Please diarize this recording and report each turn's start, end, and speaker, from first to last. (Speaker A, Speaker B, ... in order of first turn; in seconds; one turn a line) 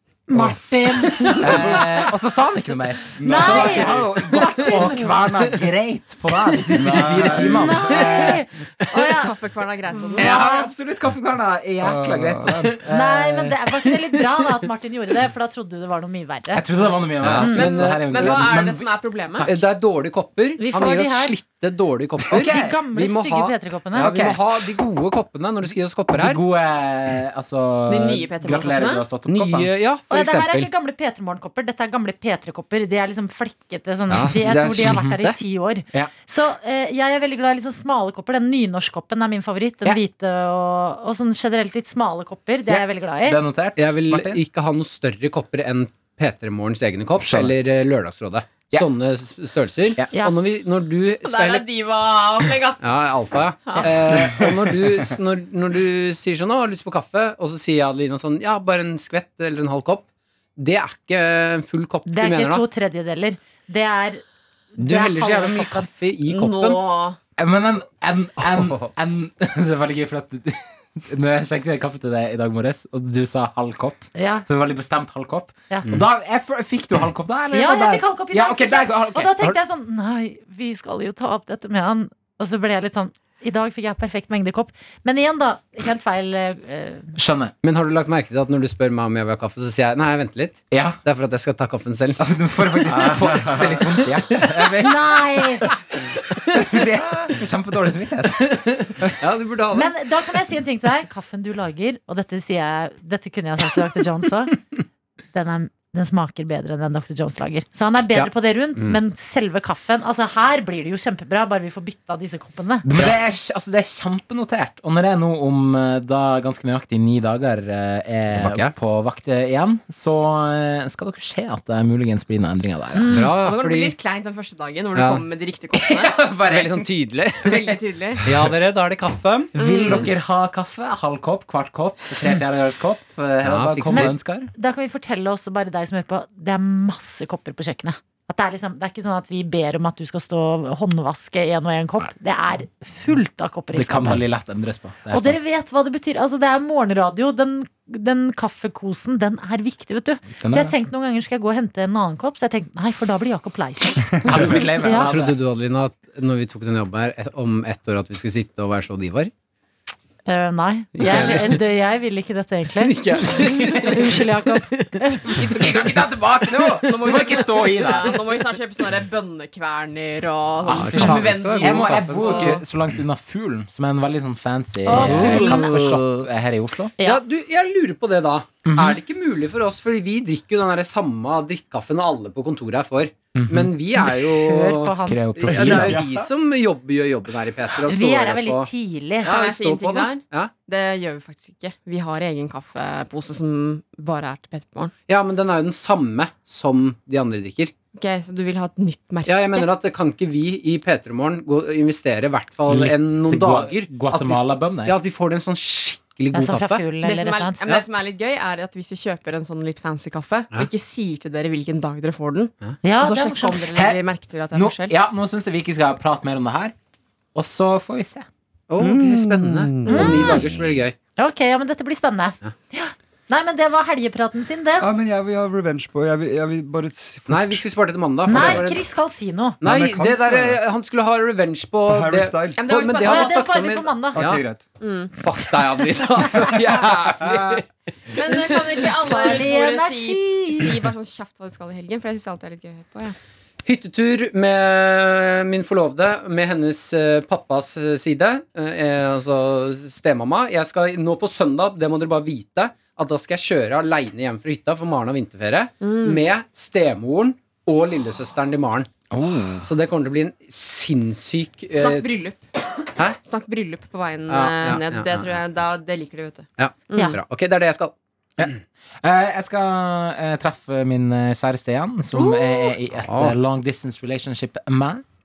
Speaker A: 0.3-1.8
Speaker B: 1.4-8.4
Speaker C: 3.1-4.1
Speaker A: 3.2-5.3
Speaker C: 6.7-7.8
Speaker A: 7.2-9.3
Speaker D: 9.1-10.4
Speaker A: 10.0-10.7
Speaker B: 10.2-14.2
Speaker C: 11.8-12.8
Speaker A: 12.9-16.6
Speaker B: 16.5-19.6
Speaker E: 17.2-18.5
Speaker A: 17.4-17.7
Speaker D: 17.5-19.5
Speaker E: 19.4-26.4
Speaker A: 20.6-21.3
Speaker B: 22.2-22.8
Speaker A: 22.3-24.2
Speaker B: 24.0-24.4
Speaker B: 26.1-29.7
Speaker D: 27.9-29.0
Speaker E: 29.3-30.7
Speaker A: 30.1-43.4
Speaker E: 34.1-35.4
Speaker B: 34.8-35.2
Speaker B: 42.7-44.4
Speaker E: 43.8-51.7
Speaker B: 47.2-47.5
Speaker D: 51.2-52.9
Speaker E: 52.8-60.0
Speaker D: 53.6-53.9
Speaker C: 54.2-54.7
Speaker E: 60.5-62.6
Speaker A: 62.1-64.2
Speaker A: 64.7-65.9
Speaker E: 64.8-66.8
Speaker D: 66.3-67.2
Speaker B: 67.4-79.5
Speaker C: 68.6-68.9
Speaker A: 74.1-74.5
Speaker A: 77.5-87.1
Speaker B: 87.2-87.5
Speaker E: 87.6-94.7
Speaker B: 90.7-91.0
Speaker B: 92.2-95.7
Speaker C: 92.9-93.8
Speaker A: 94.8-95.7
Speaker B: 96.5-99.1
Speaker E: 98.5-100.0
Speaker A: 99.7-104.6
Speaker A: 105.3-112.8
Speaker E: 108.1-109.0
Speaker B: 112.8-123.2
Speaker E: 118.3-118.7
Speaker A: 122.9-123.3
Speaker E: 123.1-123.9
Speaker D: 123.4-126.2
Speaker E: 124.9-125.2
Speaker B: 125.7-126.8
Speaker E: 126.5-127.7
Speaker D: 127.4-128.2
Speaker E: 128.2-130.1
Speaker D: 129.6-130.1
Speaker B: 129.6-134.5
Speaker E: 133.4-134.2
Speaker A: 133.9-144.2
Speaker B: 143.7-145.5
Speaker A: 145.1-155.1
Speaker B: 150.3-150.7
Speaker B: 154.2-155.4
Speaker E: 154.8-159.3
Speaker A: 160.2-165.5
Speaker E: 161.0-161.6
Speaker E: 162.8-165.9
Speaker D: 163.7-164.0
Speaker B: 165.5-168.5
Speaker D: 165.7-166.0
Speaker D: 166.6-172.6
Speaker E: 170.6-172.6
Speaker B: 170.6-176.9
Speaker A: 171.0-171.2
Speaker A: 174.8-175.8
Speaker E: 174.9-176.1
Speaker E: 177.0-188.7
Speaker B: 178.7-179.0
Speaker B: 183.3-183.7
Speaker A: 184.0-185.4
Speaker B: 185.1-186.0
Speaker C: 185.5-186.3
Speaker A: 187.8-189.3
Speaker E: 189.2-190.5
Speaker D: 189.2-194.9
Speaker E: 195.1-197.7
Speaker D: 197.9-199.7
Speaker E: 199.2-206.8
Speaker B: 202.7-204.9
Speaker A: 206.3-207.6
Speaker D: 207.0-215.0
Speaker A: 212.8-213.7
Speaker B: 213.7-214.0
Speaker B: 214.5-216.7
Speaker B: 217.3-218.3
Speaker E: 218.7-220.9
Speaker C: 218.8-220.5
Speaker A: 219.9-220.4
Speaker A: 221.2-224.9
Speaker C: 224.8-227.6
Speaker E: 227.3-228.8
Speaker A: 228.2-229.6
Speaker C: 228.3-228.6
Speaker E: 229.6-234.4
Speaker C: 229.6-230.6
Speaker C: 231.8-232.7
Speaker D: 232.6-233.4
Speaker A: 233.0-234.2
Speaker C: 234.1-234.6
Speaker D: 234.8-235.2
Speaker E: 235.2-237.7
Speaker C: 236.7-237.6
Speaker D: 238.1-243.2
Speaker A: 238.2-240.8
Speaker E: 238.3-238.7
Speaker E: 243.6-259.0
Speaker D: 255.8-256.2
Speaker C: 259.1-259.6
Speaker E: 259.6-262.1
Speaker D: 261.7-262.4
Speaker D: 263.2-267.2
Speaker E: 264.3-265.4
Speaker E: 266.6-267.9
Speaker B: 268.4-275.0
Speaker D: 272.2-272.7
Speaker E: 273.0-273.4